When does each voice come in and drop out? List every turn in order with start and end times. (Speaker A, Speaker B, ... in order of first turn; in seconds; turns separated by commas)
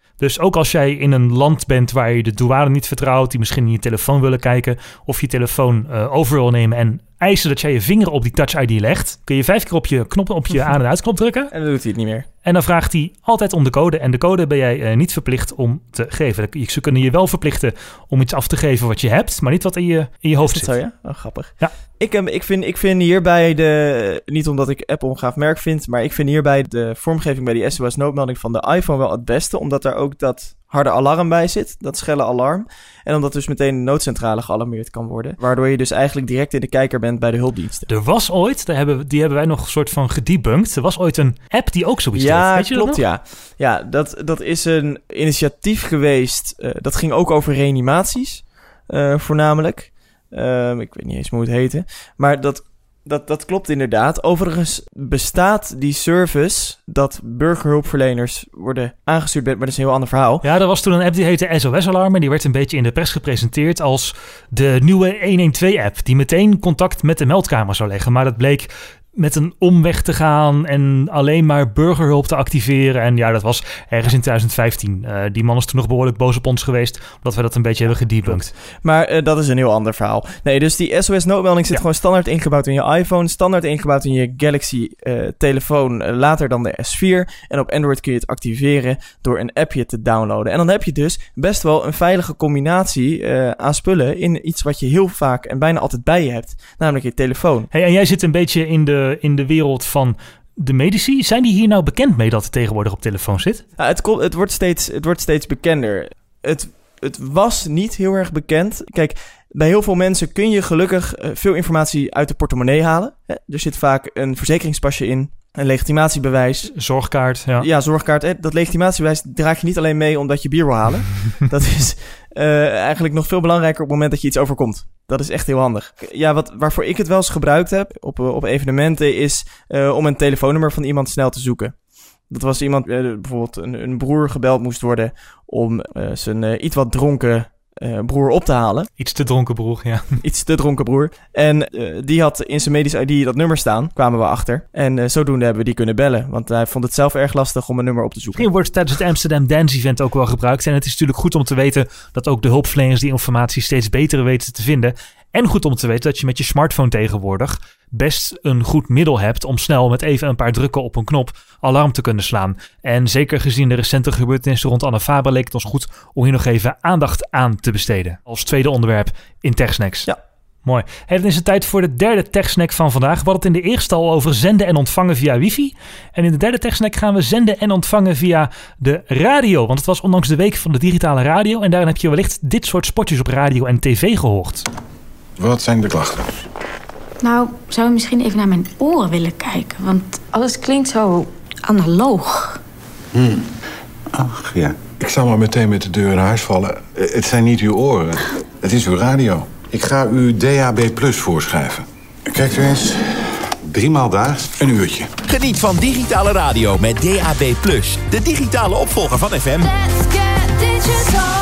Speaker A: 0.2-11.5, Speaker B: 11.5-12.3, Speaker A: 12.4-20.7, Speaker B: 20.4-37.9, Speaker A: 37.9-43.0, Speaker B: 42.2-60.5, Speaker A: 60.4-78.5, Speaker B: 78.3-97.7, Speaker A: 97.7-103.6, Speaker B: 103.8-116.7, Speaker A: 116.7-117.7, Speaker B: 117.6-131.7, Speaker B: 132.3-138.9, Speaker A: 139.0-140.2, Speaker B: 140.2-148.5, Speaker A: 148.4-170.1, Speaker A: 170.7-184.7, Speaker C: 185.4-186.3, Speaker D: 187.2-192.6, Speaker C: 193.1-193.5, Speaker C: 194.1-205.1, Speaker E: 205.2-209.8, Speaker D: 210.3-210.9